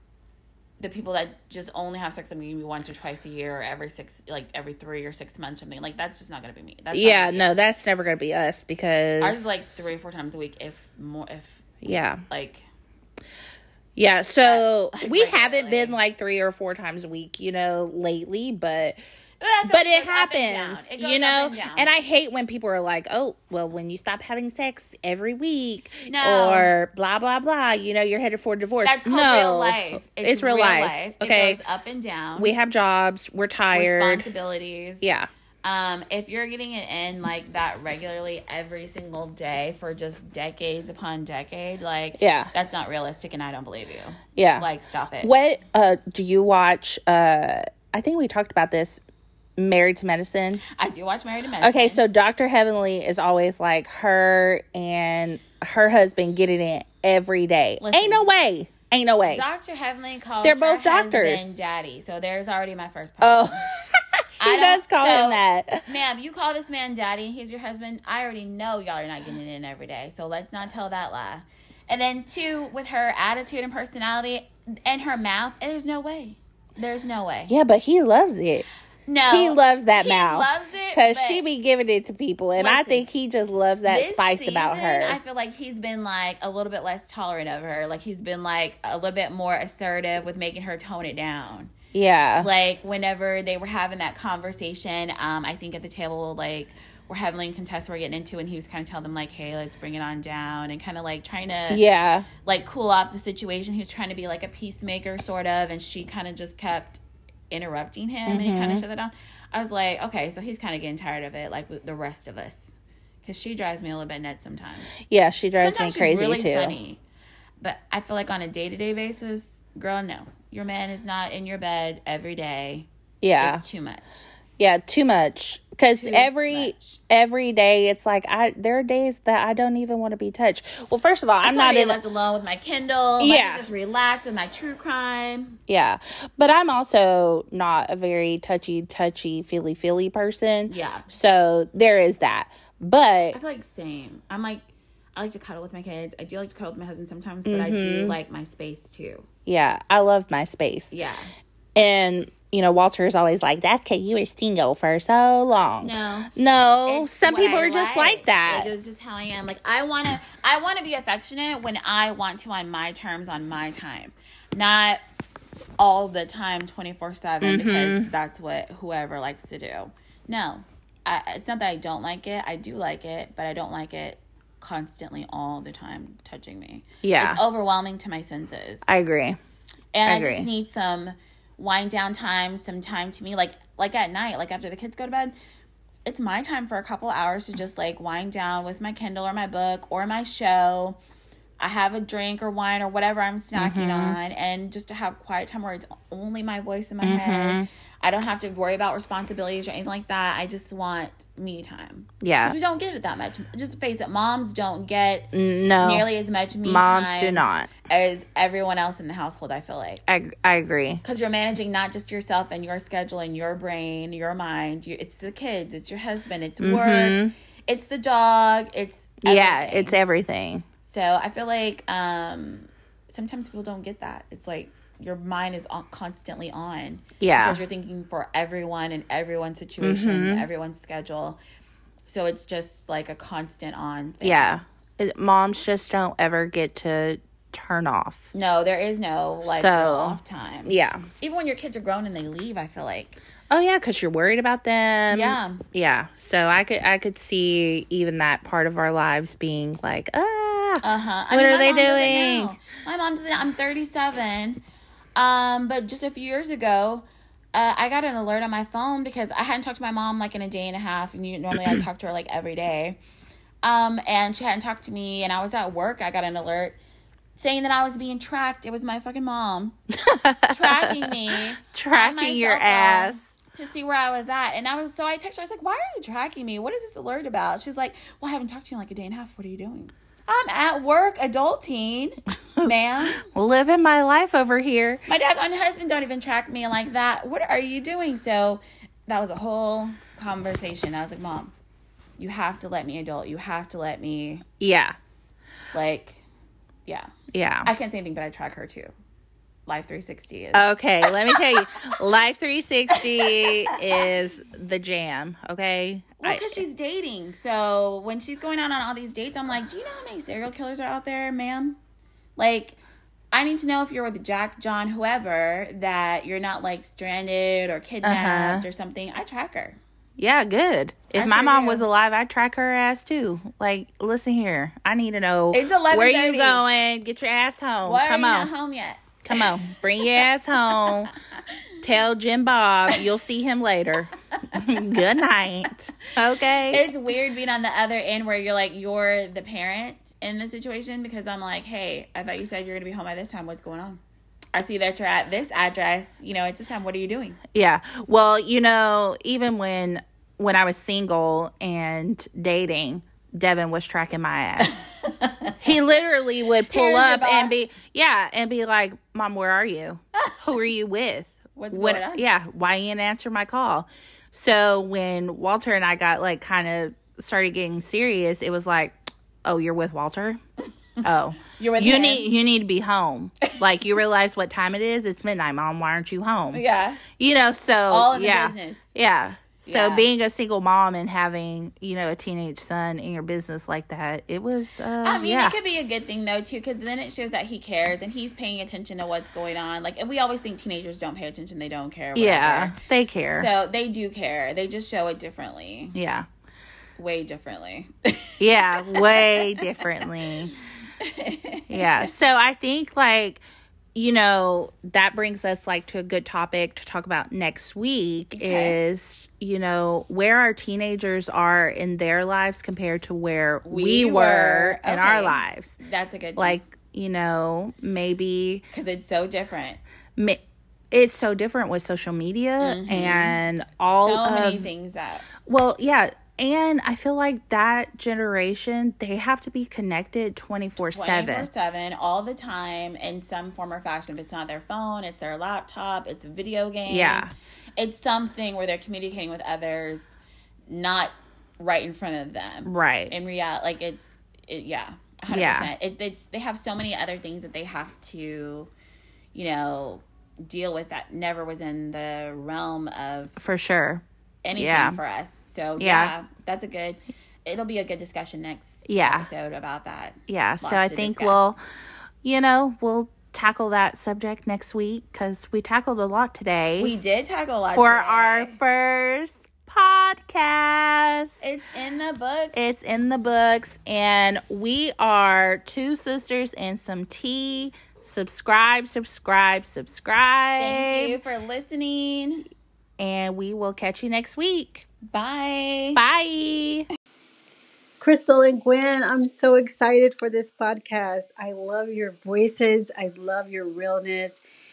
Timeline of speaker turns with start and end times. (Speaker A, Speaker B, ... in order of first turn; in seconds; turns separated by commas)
Speaker A: 0.8-7.5, Speaker B: 6.9-9.7, Speaker A: 9.2-12.6, Speaker B: 11.8-12.2, Speaker B: 13.9-19.0, Speaker A: 14.4-16.0, Speaker A: 19.4-21.9, Speaker B: 19.7-31.6, Speaker A: 26.1-26.7, Speaker A: 28.8-32.5, Speaker B: 32.4-34.2, Speaker A: 33.7-35.0, Speaker B: 35.0-35.3, Speaker A: 35.6-45.3, Speaker B: 42.2-42.5, Speaker B: 44.3-44.6, Speaker B: 45.2-49.0, Speaker B: 49.6-50.6, Speaker A: 50.7-52.0, Speaker B: 51.6-59.4, Speaker A: 57.8-58.2, Speaker A: 59.3-63.7, Speaker B: 60.4-61.6, Speaker B: 63.2-65.8, Speaker A: 64.4-77.5, Speaker B: 77.5-78.7, Speaker A: 79.1-81.4, Speaker B: 79.3-85.2, Speaker A: 82.6-83.0, Speaker A: 83.8-91.7, Speaker B: 91.9-92.5, Speaker A: 92.4-101.8, Speaker B: 101.7-102.3, Speaker A: 102.4-112.7, Speaker B: 108.3-108.8, Speaker A: 113.2-114.9, Speaker B: 115.0-116.8, Speaker A: 115.6-117.0, Speaker A: 117.6-122.9, Speaker B: 123.2-123.6, Speaker A: 123.4-124.2, Speaker B: 124.6-132.0, Speaker A: 125.9-127.0, Speaker A: 131.4-135.6, Speaker B: 133.2-133.7, Speaker B: 135.7-143.4, Speaker A: 140.7-141.1, Speaker A: 143.3-144.6, Speaker A: 145.2-149.2, Speaker B: 147.4-148.2, Speaker B: 149.4-150.9, Speaker A: 150.9-151.3, Speaker B: 151.7-158.7, Speaker A: 155.8-156.3, Speaker A: 156.8-165.0, Speaker A: 165.8-178.8, Speaker B: 167.4-168.1, Speaker B: 177.0-177.4, Speaker B: 178.8-179.4, Speaker A: 179.9-185.3, Speaker B: 180.1-180.5, Speaker A: 186.0-191.0, Speaker A: 191.6-210.0, Speaker B: 193.6-194.2, Speaker B: 197.0-197.7, Speaker B: 202.2-202.6, Speaker B: 205.3-206.1, Speaker B: 206.6-207.7, Speaker B: 210.1-211.0, Speaker A: 211.0-219.9, Speaker B: 216.6-217.3, Speaker B: 219.2-220.7, Speaker A: 220.8-231.4, Speaker B: 227.2-227.6, Speaker B: 229.8-230.5, Speaker A: 232.1-234.6, Speaker B: 234.2-238.3, Speaker A: 238.3-243.2, Speaker B: 239.5-241.3, Speaker B: 243.5-252.5, Speaker A: 245.1-245.6, Speaker A: 250.8-254.6, Speaker A: 255.2-263.0, Speaker B: 261.5-261.8, Speaker A: 263.6-266.8, Speaker A: 267.4-269.8, Speaker B: 270.0-273.4, Speaker A: 270.5-283.2, Speaker B: 282.6-285.0, Speaker A: 285.1-291.5, Speaker A: 292.2-294.4, Speaker B: 294.6-294.9, Speaker A: 295.7-296.2, Speaker B: 297.3-297.7, Speaker A: 297.6-298.9, Speaker A: 299.7-301.4, Speaker B: 300.5-306.6, Speaker A: 306.2-311.8, Speaker A: 312.4-312.8, Speaker A: 313.3-319.8, Speaker B: 318.0-318.6, Speaker B: 320.2-328.5, Speaker A: 321.1-321.9, Speaker A: 325.5-326.6, Speaker A: 327.8-331.7, Speaker B: 329.2-331.1, Speaker B: 331.8-336.8, Speaker A: 336.7-344.0, Speaker A: 344.5-347.4, Speaker B: 347.5-354.9, Speaker A: 354.6-355.8, Speaker B: 355.6-370.4, Speaker A: 356.7-357.5, Speaker A: 361.5-362.2, Speaker A: 371.0-372.2, Speaker B: 371.0-376.6, Speaker A: 376.5-377.0, Speaker B: 377.2-385.6, Speaker A: 377.9-378.8, Speaker A: 379.6-380.0, Speaker A: 385.0-392.8, Speaker B: 392.1-393.5, Speaker A: 393.3-395.9, Speaker B: 395.9-396.2, Speaker A: 397.0-399.9, Speaker B: 398.4-400.5, Speaker A: 401.0-402.1, Speaker B: 401.7-403.4, Speaker B: 403.9-415.8, Speaker A: 408.3-408.8, Speaker A: 413.6-416.6, Speaker B: 416.4-418.6, Speaker A: 418.7-419.8, Speaker B: 420.2-424.7, Speaker A: 422.6-423.4, Speaker A: 424.0-425.3, Speaker B: 425.4-431.5, Speaker A: 430.9-440.1, Speaker B: 436.9-437.3, Speaker A: 440.7-448.7, Speaker B: 442.6-443.1, Speaker B: 445.3-445.7, Speaker A: 449.3-453.4, Speaker B: 453.4-454.0, Speaker A: 454.4-461.5, Speaker B: 454.5-455.0, Speaker B: 455.8-456.1, Speaker B: 458.9-459.3, Speaker B: 460.3-461.6, Speaker B: 462.2-466.9, Speaker A: 466.8-468.6, Speaker B: 467.7-471.4, Speaker A: 471.4-472.6, Speaker B: 472.5-481.2, Speaker A: 480.6-482.4, Speaker B: 483.0-484.8, Speaker A: 485.1-486.0, Speaker B: 485.9-486.9, Speaker C: 488.0-494.4